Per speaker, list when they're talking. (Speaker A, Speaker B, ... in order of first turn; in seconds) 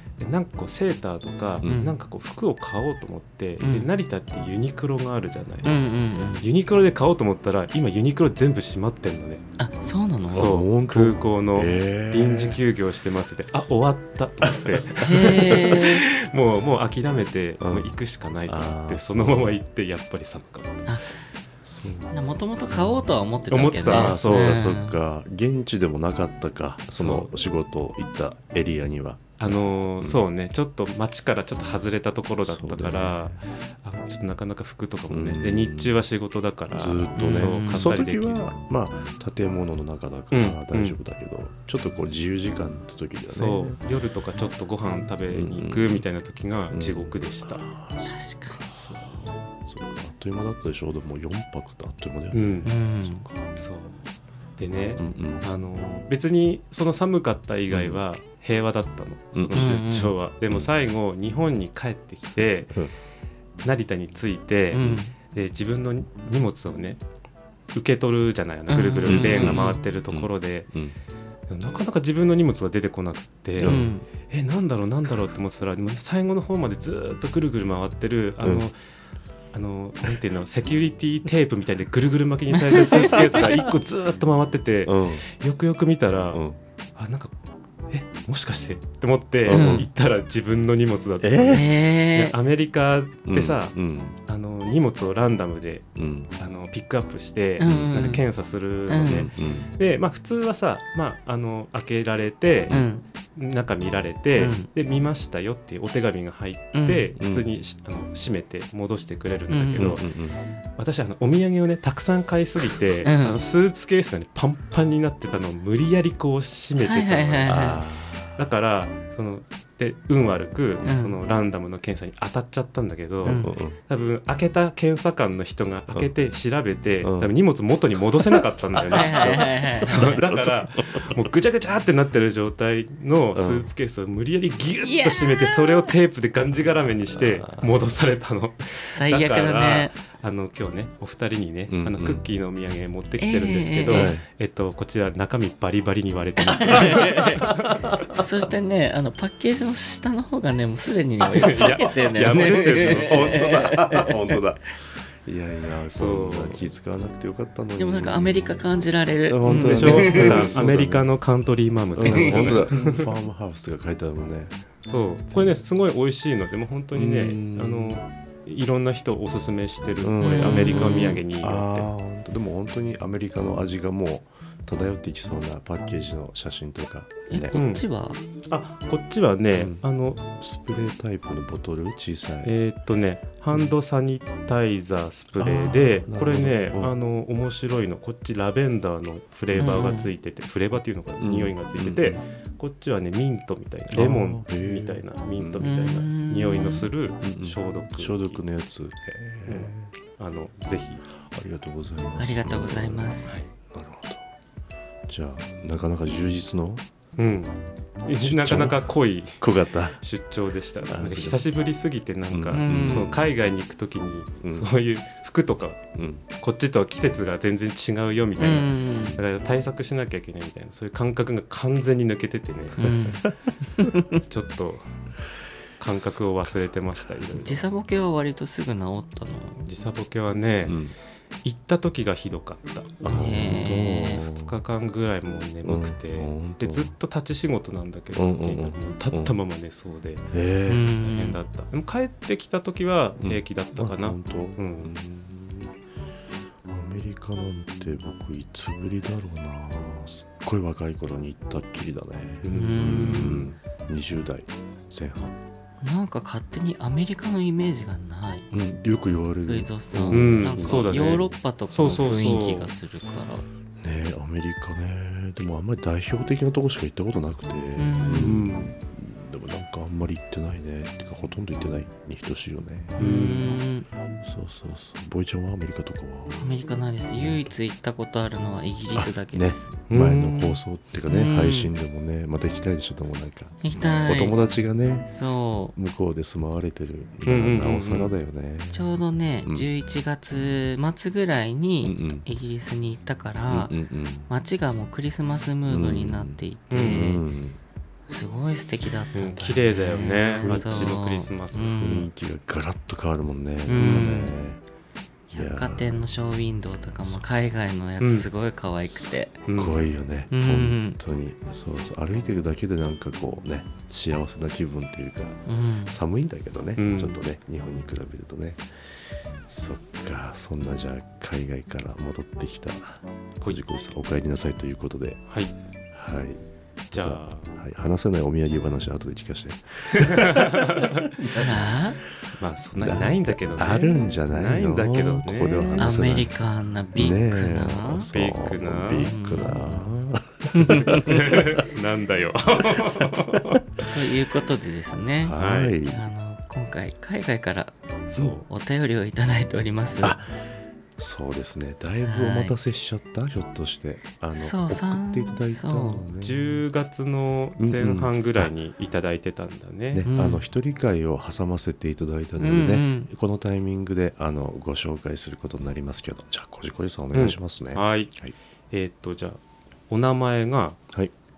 Speaker A: 0.2-5.8, 6.4-9.4, 10.3-20.9, 23.5-24.6, 27.0-27.3, 29.4-38.5, 40.3-41.0, 43.3-47.7, 48.8-49.3, 52.3-52.7, 53.6-54.1, 54.6-62.8, 63.6-67.0, 67.7-70.7, 71.5-78.8, 79.5-86.4, 87.0-87.3, 87.9-102.8, 103.4-110.1, 110.8-117.8, 118.4-147.9, 151.3-153.5, 155.9-156.7, 159.5-163.1, 164.9-171.9, 177.5-177.8, 178.5-180.2, 182.4-198.4, 199.5-201.0, 207.2-209.5, 210.0-222.9, 224.1-224.9, 225.8-227.7, 229.7-230.8, 231.4-233.2, 233.9-240.3, 241.0-244.9, 252.4-253.4, 260.1-262.7, 268.1-268.7, 273.0-273.6, 279.9-280.6, 287.3-288.2, 296.7-297.2, 299.1-301.8, 303.8-304.2, 308.0-308.3, 309.5-309.8, 316.8-317.2, 325.3-325.6, 326.9-327.5, 329.9-331.1, 332.3-335.9, 338.1-339.1, 340.9-343.6, 345.4-345.8, 348.1-348.4, 356.2-360.1, 367.1-368.1, 368.7-370.8
Speaker B: 1.6-1.9, 10.3-12.6, 14.4-15.8, 17.6-19.6, 21.6-22.1, 22.7-23.1, 23.9-30.2, 32.4-33.4, 35.1-36.0, 36.7-43.8, 45.3-46.0, 46.7-53.6, 55.0-55.5, 57.7-58.0, 59.3-59.8, 69.0-71.0, 73.6-73.9, 83.0-83.7, 84.9-85.2, 86.3-86.6, 89.5-89.9, 91.2-91.7, 93.3-94.2, 96.0-96.3, 97.6-97.9, 99.1-99.7, 107.2-107.5, 109.7-110.4, 117.5-118.5, 123.2-123.8, 127.0-127.3, 128.1-131.3, 133.3-133.7, 137.1-137.7, 141.7-142.2, 143.9-144.3, 146.8-148.2, 151.4-158.7, 159.3-161.1, 161.9-164.6, 165.3-165.6, 166.9-168.0, 170.0-177.6, 179.6-179.8, 180.4-182.5, 185.4-186.9, 191.2-192.2, 193.9-195.7, 197.2-199.9, 201.2-204.3, 205.1-206.8, 208.2-208.8, 209.4-210.0, 210.9-211.4, 212.3-213.3, 214.4-214.7, 216.0-216.2, 222.8-223.9, 225.9-227.1, 230.7-230.9, 233.0-234.6, 235.6-236.9, 238.2-239.3, 240.3-240.9, 243.2-245.8, 246.7-255.4, 258.5-261.2, 263.8-273.0, 274.2-276.5, 277.1-277.5, 278.9-285.1, 285.8-289.7, 291.8-292.3, 293.5-294.3, 295.7-297.6, 300.4-301.0, 301.8-304.6, 305.3-306.1, 308.9-318.6, 319.5-325.2, 325.9-326.4, 326.9-331.6, 332.8-336.3, 336.9-341.6, 345.2-346.0, 350.0-350.3, 351.0-356.5, 357.6-358.5, 359.9-368.3
Speaker C: 1.6-1.9, 3.6-3.9, 5.6-6.5, 9.6-10.5, 15.0-16.1, 20.9-21.2, 22.1-24.9, 37.1-37.9, 48.1-48.6, 52.6-53.3, 59.5-60.1, 64.7-65.1, 68.7-69.8, 73.6-74.1, 82.7-83.2, 89.5-89.8, 91.5-92.3, 97.6-98.2, 98.9-99.3, 102.7-103.0, 104.4-104.7, 106.7-107.1, 109.5-109.9, 113.0-113.4, 116.8-117.8, 120.8-121.2, 123.2-123.5, 128.9-130.2, 134.8-135.8, 138.8-139.9, 143.2-144.1, 146.5-147.5, 148.2-154.4, 157.8-160.6, 162.1-162.6, 170.2-171.2, 177.3-178.2, 189.6-190.1, 195.6-196.9, 202.2-203.4, 212.5-213.1, 218.4-219.2, 222.8-224.2, 227.4-229.7, 233.1-234.2, 240.7-241.4, 252.5-253.5, 255.8-258.5, 259.5-263.5, 267.8-268.5, 273.0-273.9, 276.4-279.7, 281.1-281.7, 283.6-284.4, 285.1-285.8, 288.7-293.7, 294.3-297.2, 298.1-302.1, 303.7-304.3, 305.3-309.4, 310.3-311.0, 315.5-316.0, 331.3-332.0, 335.8-338.1, 339.0-339.8, 340.6-341.1, 343.8-347.8, 348.4-350.2, 352.0-352.6, 354.3-356.1, 360.1-360.4, 362.4-363.1